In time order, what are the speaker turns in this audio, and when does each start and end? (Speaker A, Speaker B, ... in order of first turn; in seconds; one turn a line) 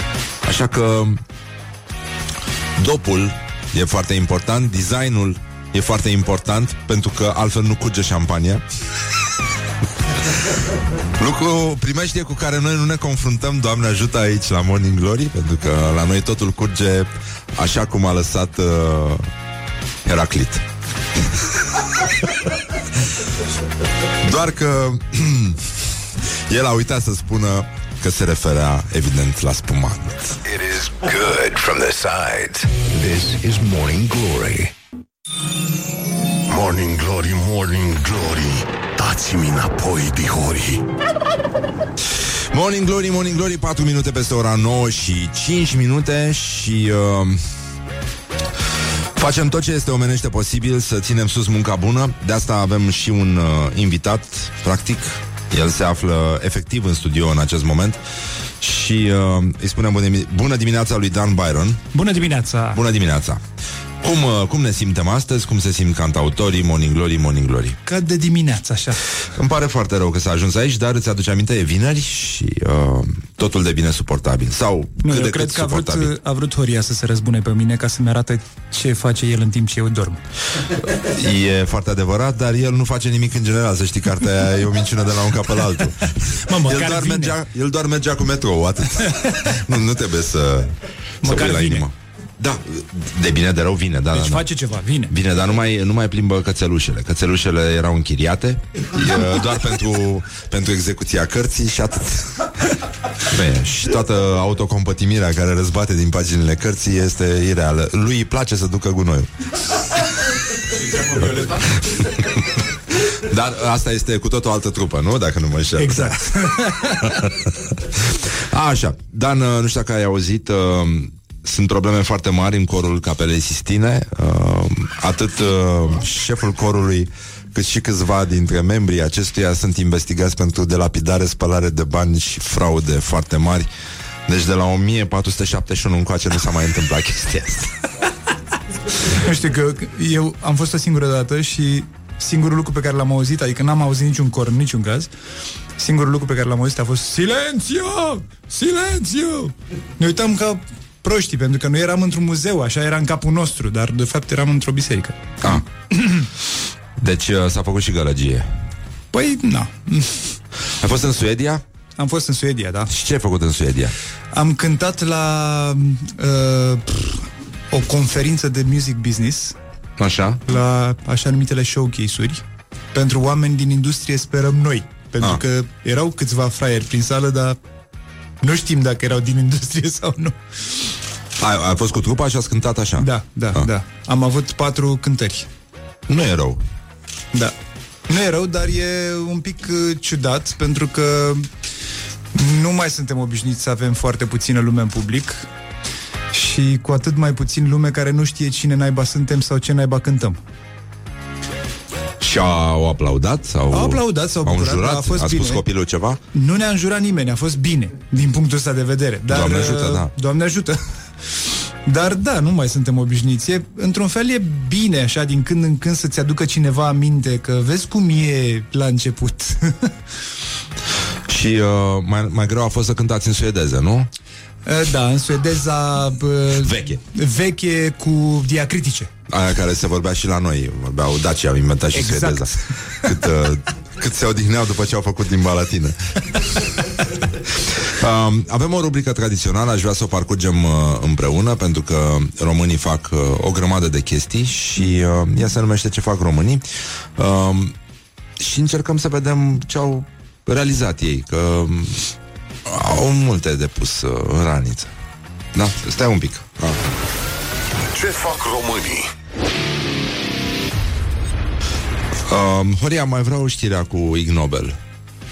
Speaker A: 0.4-1.2
Speaker A: 2.8-8.6
Speaker A: 11.2-19.3
Speaker A: 20.0-20.6
Speaker A: 24.2-25.7
Speaker A: 26.5-30.4
Speaker B: 30.4-34.7
Speaker C: 36.5-40.8
Speaker A: 42.5-47.4
Speaker A: 49.2-58.0
Speaker A: 58.6-61.8
Speaker D: 61.9-62.8
Speaker A: 62.7-63.4
Speaker A: 64.0-67.8
Speaker D: 67.8-69.0
Speaker A: 69.3-76.1
Speaker D: 75.0-80.2
Speaker A: 80.9-94.5
Speaker D: 86.4-87.3
Speaker D: 91.2-91.8
Speaker D: 94.1-95.1
Speaker A: 95.1-102.5
Speaker A: 103.2-109.3
Speaker A: 110.9-116.6
Speaker D: 115.8-117.3
Speaker A: 117.2-133.7
Speaker A: 134.3-137.7
Speaker D: 139.1-145.1
Speaker D: 145.8-156.3
Speaker A: 157.0-158.5
Speaker D: 159.1-160.4
Speaker A: 160.8-161.6
Speaker D: 162.0-162.9
Speaker A: 162.9-163.9
Speaker D: 164.3-169.6
Speaker A: 170.0-170.4
Speaker D: 170.4-177.6
Speaker D: 178.4-180.9
Speaker A: 181.4-183.7
Speaker D: 183.0-185.5
Speaker A: 186.1-186.6
Speaker D: 188.1-191.5
Speaker D: 192.3-195.5
Speaker D: 196.3-200.4
Speaker A: 202.2-206.2
Speaker D: 203.7-205.6
Speaker D: 206.3-210.8
Speaker A: 209.3-210.1
Speaker D: 211.3-219.9
Speaker A: 221.3-224.1
Speaker D: 224.6-229.1
Speaker A: 226.6-227.0
Speaker A: 229.3-236.7
Speaker D: 231.9-232.6
Speaker A: 237.5-246.6
Speaker A: 247.2-247.7
Speaker A: 248.4-252.1
Speaker A: 252.7-254.9
Speaker A: 255.5-256.8
Speaker C: 257.9-259.1
Speaker A: 262.3-264.8